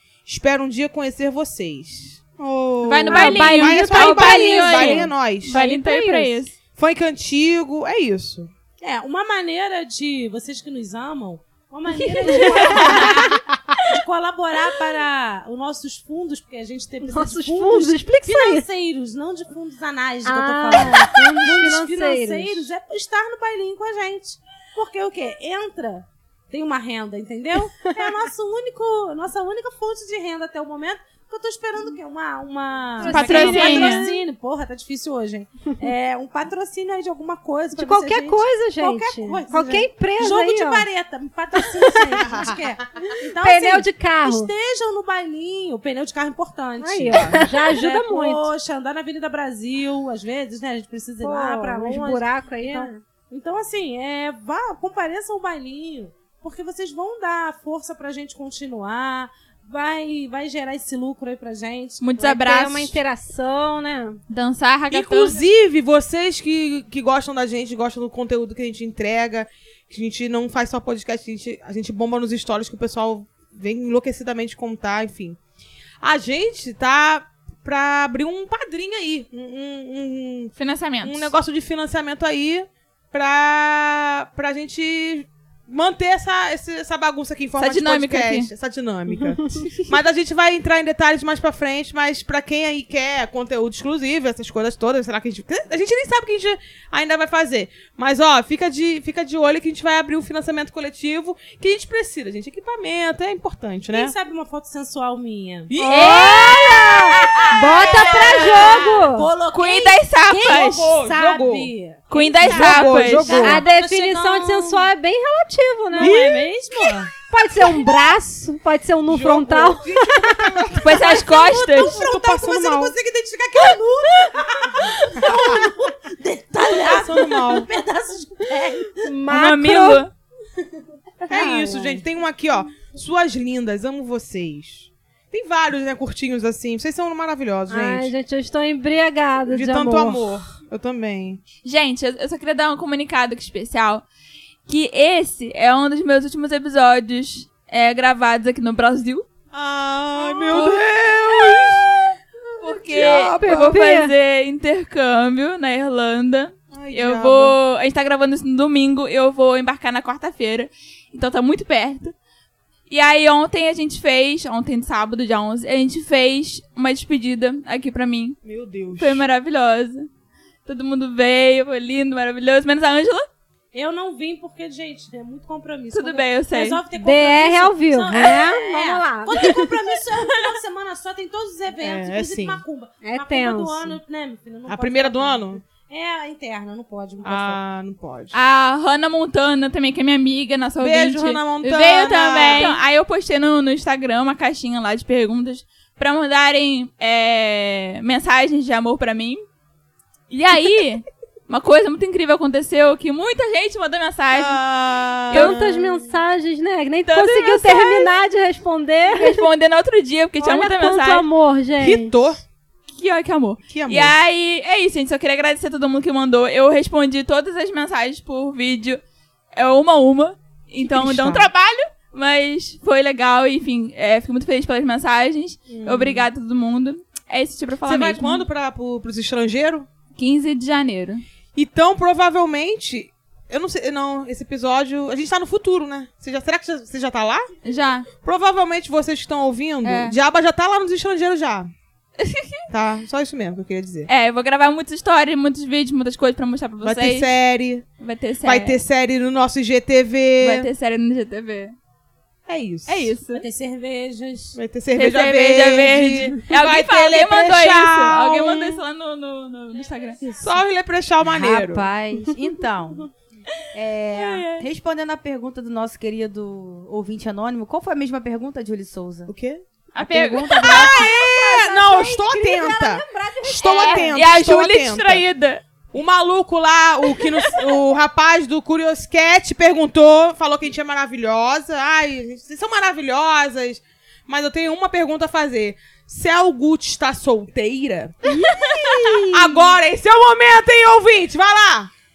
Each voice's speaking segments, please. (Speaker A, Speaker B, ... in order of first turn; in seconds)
Speaker A: 0.2-5.6, 6.8-8.5, 33.1-33.7, 42.2-42.7, 64.9-75.4, 76.0-80.5, 81.0-104.1, 105.7-106.9, 107.7-108.7, 110.4-111.7, 112.4-113.6, 116.0-117.1, 119.1-121.2, 121.8-122.9, 125.2-125.7, 126.7-127.7, 131.3-138.1, 139.5-141.4, 149.5-153.6, 156.7-157.6, 168.4-169.2, 181.8-182.6, 184.7-185.6, 187.2-188.3, 190.8-192.8, 204.3-205.9, 211.8-212.4, 213.7-214.2, 220.8-221.5, 225.7-226.3, 227.8-229.9, 231.6-237.5, 238.2-241.7, 242.7-244.1, 246.8-247.8, 248.4-250.7, 252.5-253.1, 254.5-258.8, 260.4-261.8, 269.3-269.6, 270.6-275.2, 275.9-288.2, 289.3-291.9
Speaker B: 2.8-6.5, 12.0-13.9, 33.0-34.0, 62.0-63.0, 64.3-65.4, 80.5-81.3, 87.6-88.5, 105.9-107.0, 108.1-108.8, 109.5-110.9, 112.1-113.5, 120.7-122.0, 129.3-130.1, 141.6-144.0, 144.7-149.2, 150.5-151.8, 152.6-162.1, 162.9-168.4, 169.0-170.1, 170.7-173.3, 175.9-176.8, 188.3-199.4, 200.3-204.6, 205.3-205.6, 207.1-208.1, 209.1-211.2, 212.9-219.0, 219.5-228.4, 230.2-231.2, 237.6-238.1, 239.8-240.2, 242.2-242.6, 244.1-247.3, 248.0-248.8, 250.4-251.7, 252.8-253.4, 254.9-260.2, 264.1-264.6, 269.9-271.1, 273.7-275.6, 277.1-277.8, 288.5-289.2
Speaker C: 3.1-6.4, 12.2-13.0, 17.0-18.6, 20.2-22.7, 33.0-34.2, 37.7-40.9, 43.4-44.5, 46.8-48.5, 51.2-53.0, 62.2-64.2, 105.8-109.3, 113.3-116.5, 117.3-120.6, 129.0-130.0, 131.3-132.0, 137.7-140.2, 153.4-154.1, 177.0-179.7, 183.0-184.0, 205.3-209.5, 210.4-212.1, 270.8-274.1
Speaker D: 8.8-62.1, 103.9-105.7, 107.2-114.9, 115.9-117.1, 120.7-129.1, 173.7-187.6, 253.3-254.6
Speaker E: 261.2-263.1, 263.7-269.3, 270.0-271.1